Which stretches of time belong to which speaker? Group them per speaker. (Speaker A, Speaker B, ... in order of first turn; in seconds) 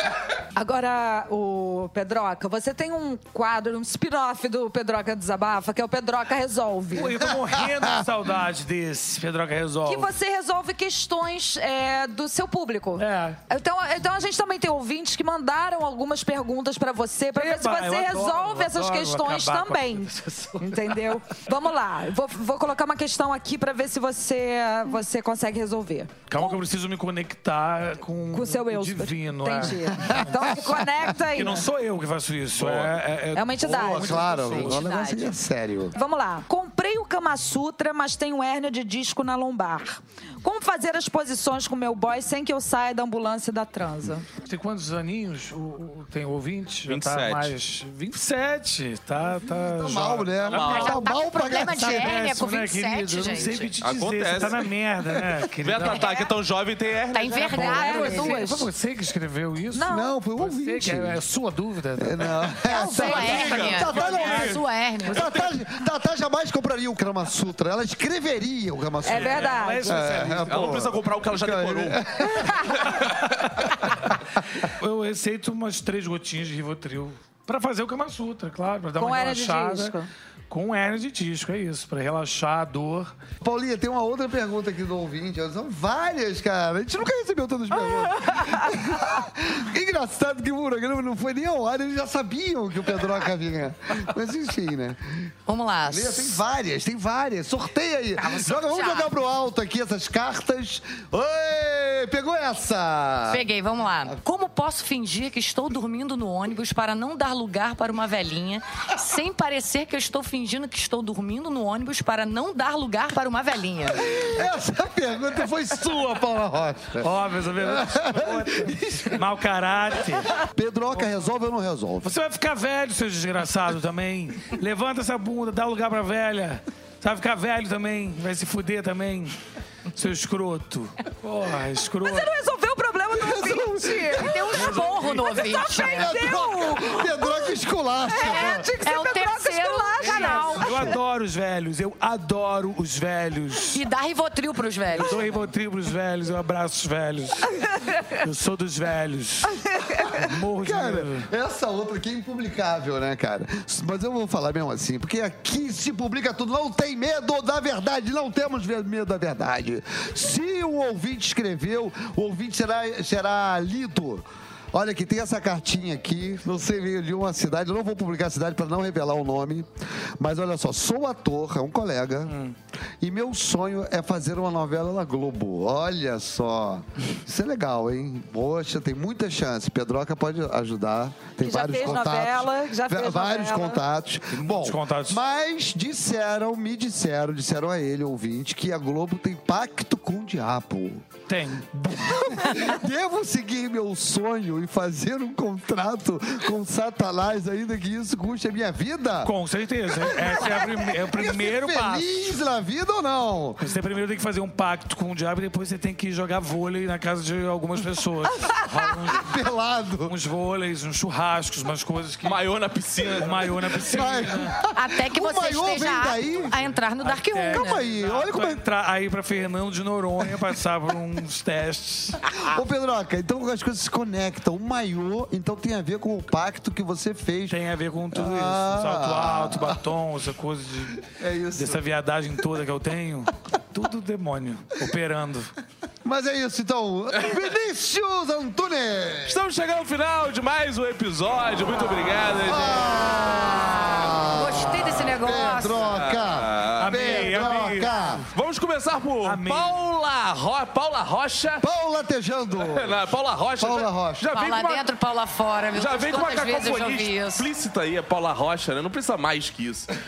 Speaker A: 0.5-7.2, 9.8-26.6, 28.3-31.6, 33.3-34.8, 35.9-44.3, 57.4-58.7, 59.7-60.1, 69.0-70.0, 79.0-80.1, 88.1-88.8, 132.0-134.7, 135.2-140.8, 181.4-183.8
Speaker B: 6.9-10.1, 13.0-13.4, 17.3-21.1, 26.3-34.9, 44.4-56.0, 57.4-64.6, 69.1-70.8, 74.6-80.0, 80.5-83.1, 117.0-120.4, 122.0-129.4, 129.9-132.3, 134.5-135.6, 140.0-143.8, 144.9-151.3, 172.2-172.5, 184.3-185.2, 191.3-191.7, 199.2-202.4, 203.6-209.3, 210.0-212.4, 213.2-214.6, 217.0-222.2, 227.5-235.5, 246.8-248.2, 249.2-249.8
Speaker C: 29.9-30.9, 33.6-36.0, 49.4-52.2, 57.7-58.4, 59.9-61.2, 62.0-72.9, 83.4-95.3, 95.9-103.5, 113.9-119.2, 120.2-122.1, 133.1-134.8, 135.7-138.7, 150.6-169.7, 170.2-172.4, 173.0-191.1, 191.7-199.3, 199.9-203.6, 209.0-210.1, 213.8-216.6, 217.5-218.6, 222.4-227.6, 228.1-229.9, 231.0-231.8, 236.0-239.4, 242.4-248.2, 251.6-254.2
Speaker D: 32.5-32.9, 46.9-47.5, 50.5-51.0, 53.8-54.6, 55.6-57.7, 63.0-64.4, 65.1-65.4, 70.5-73.8, 212.2-214.0, 239.2-243.1, 245.8-247.7, 248.3-251.7, 252.6-254.8, 255.7-259.9
Speaker E: 34.6-35.3, 50.5-53.8, 55.8-56.3, 57.1-58.4, 62.6-65.3, 95.5-96.4, 98.2-99.1, 103.3-114.2, 134.1-136.3, 138.8-140.9, 143.7-145.4, 214.7-217.9, 243.4-245.9, 254.3-257.5